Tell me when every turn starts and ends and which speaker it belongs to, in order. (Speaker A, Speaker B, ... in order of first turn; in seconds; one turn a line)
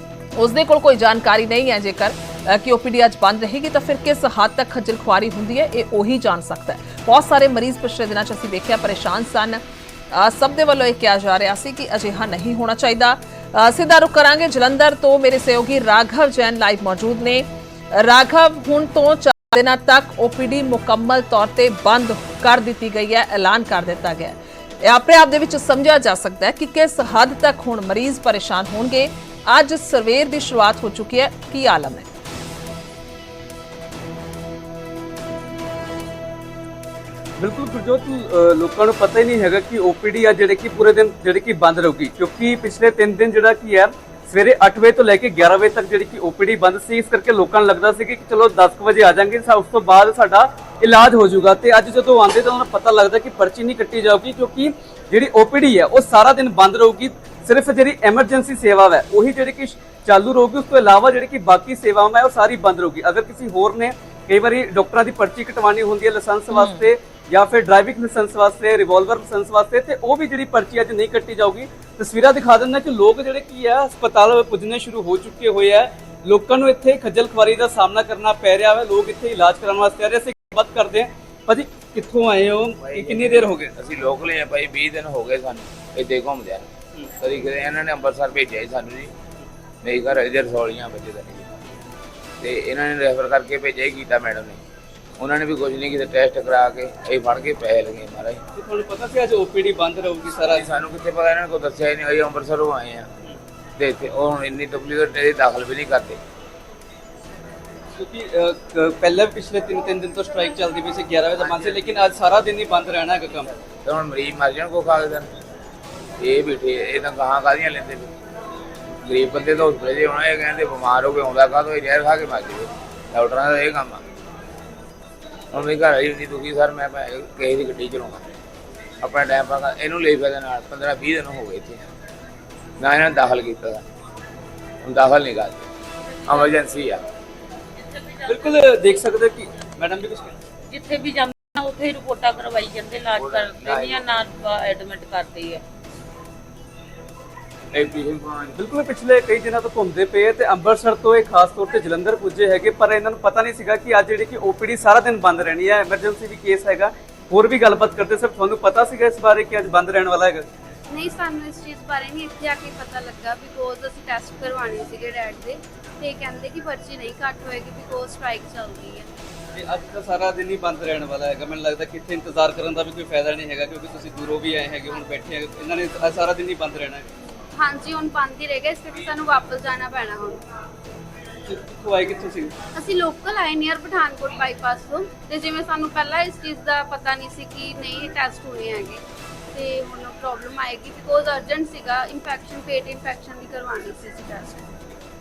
Speaker A: 0.3-32.1
Speaker B: 37.4-83.7
Speaker A: 66.5-66.9
Speaker C: 82.8-89.1
Speaker C: 89.8-91.5
Speaker C: 92.4-94.6
Speaker C: 95.2-98.4
Speaker B: 98.5-100.6
Speaker C: 100.4-103.1
Speaker C: 103.8-106.2
Speaker B: 108.0-113.5
Speaker C: 111.6-111.8
Speaker C: 113.8-115.3
Speaker C: 116.2-118.1
Speaker C: 119.0-124.0
Speaker C: 125.5-128.2
Speaker C: 129.0-131.8
Speaker C: 132.8-133.8
Speaker C: 134.8-135.7
Speaker C: 136.2-137.0
Speaker D: 137.9-138.5
Speaker B: 138.2-140.3
Speaker D: 140.7-145.6
Speaker C: 143.2-144.1
Speaker C: 147.7-148.6
Speaker B: 148.5-160.4
Speaker E: 160.9-169.1
Speaker B: 169.5-177.0
Speaker E: 177.5-180.4
Speaker B: 181.4-182.5
Speaker E: 182.7-189.0
Speaker E: 189.5-194.7